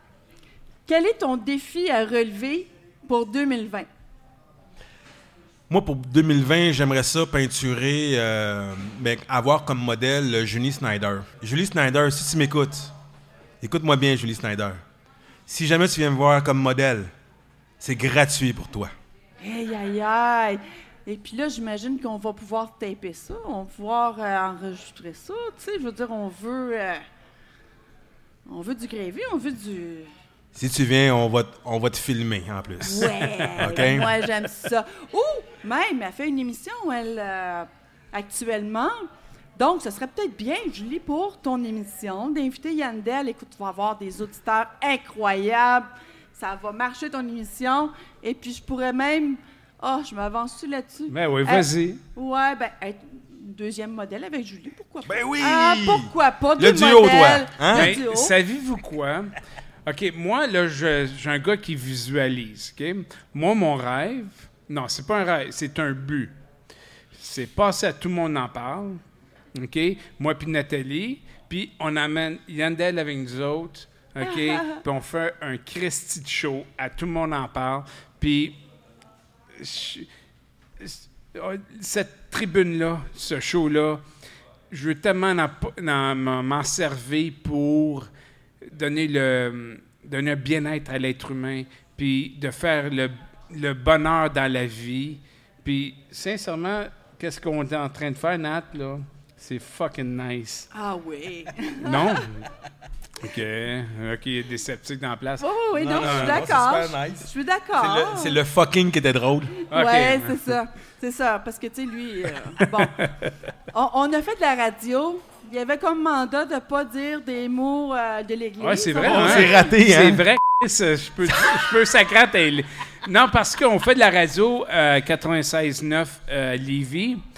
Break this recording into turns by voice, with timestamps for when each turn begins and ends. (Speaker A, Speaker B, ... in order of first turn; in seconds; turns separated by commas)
Speaker A: 0.9-3.9, Speaker B: 5.7-12.9, Speaker B: 13.6-14.8, Speaker B: 15.5-17.1, Speaker B: 17.8-18.9, Speaker A: 19.4-27.0, Speaker A: 28.5-30.1, Speaker B: 30.5-34.2, Speaker A: 32.8-39.0, Speaker A: 39.6-58.3, Speaker C: 51.1-52.0, Speaker B: 55.1-58.0, Speaker C: 57.7-66.3, Speaker C: 67.2-69.0, Speaker C: 69.5-78.6, Speaker C: 79.6-80.1, Speaker C: 80.8-84.0, Speaker C: 84.7-88.1, Speaker C: 88.6-100.7, Speaker A: 100.7-102.3, Speaker C: 101.8-102.5, Speaker C: 103.2-106.4, Speaker A: 105.4-108.4, Speaker B: 105.7-109.6, Speaker A: 109.6-113.0, Speaker C: 109.7-110.5, Speaker C: 112.6-113.3, Speaker A: 113.7-119.7, Speaker C: 118.6-127.2, Speaker B: 119.0-120.2, Speaker B: 121.3-121.6